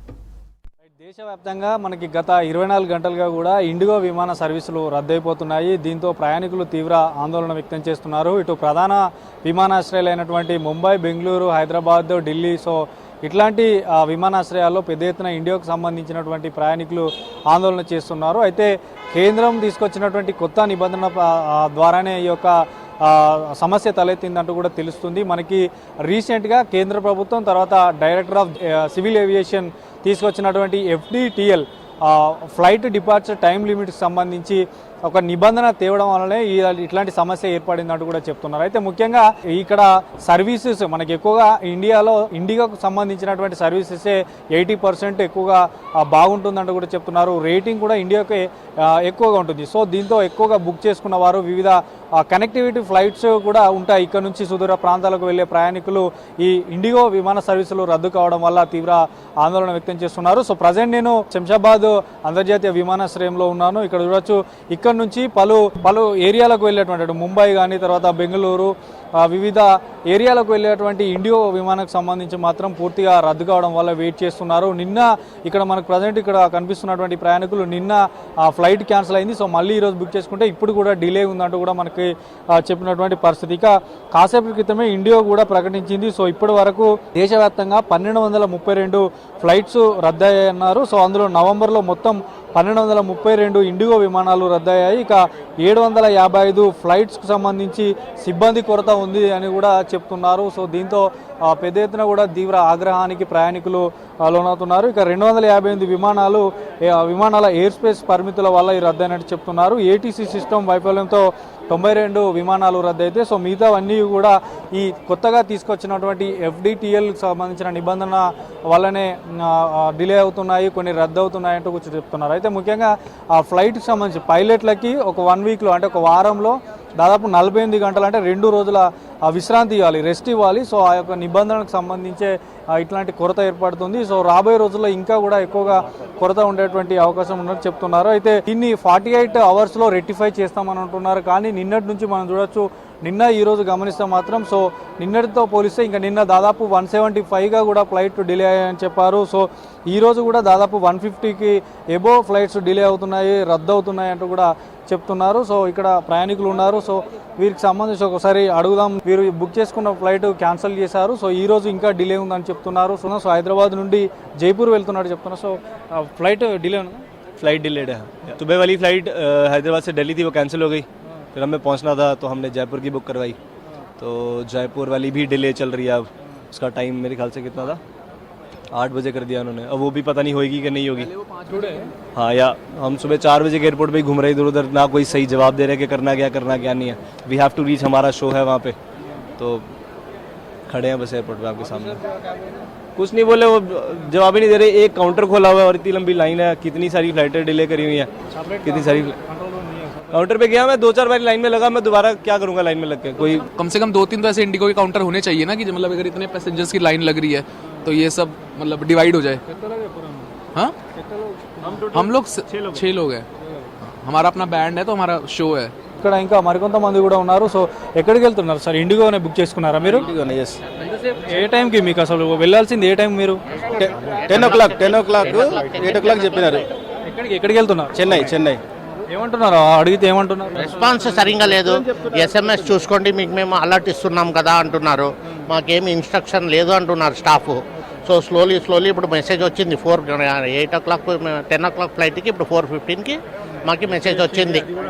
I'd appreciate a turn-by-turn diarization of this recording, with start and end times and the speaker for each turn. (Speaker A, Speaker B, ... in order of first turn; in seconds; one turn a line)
Speaker A: 0.9-167.0
Speaker B: 167.4-173.4
Speaker B: 174.0-177.8
Speaker B: 178.7-181.1
Speaker B: 182.1-188.8
Speaker B: 189.4-189.7
Speaker B: 190.7-192.0
Speaker B: 193.0-198.1
Speaker A: 198.3-200.2
Speaker B: 198.6-199.2
Speaker B: 200.1-203.5
Speaker C: 203.6-209.4
Speaker A: 209.5-210.3
Speaker A: 210.9-211.6
Speaker B: 211.6-212.8
Speaker C: 211.9-213.3
Speaker C: 213.8-215.7
Speaker A: 216.0-220.1
Speaker B: 220.0-220.6
Speaker A: 221.1-223.4
Speaker B: 223.7-226.7
Speaker D: 224.3-226.6
Speaker A: 227.1-228.2
Speaker B: 228.0-228.6
Speaker A: 229.1-230.7
Speaker D: 230.6-244.7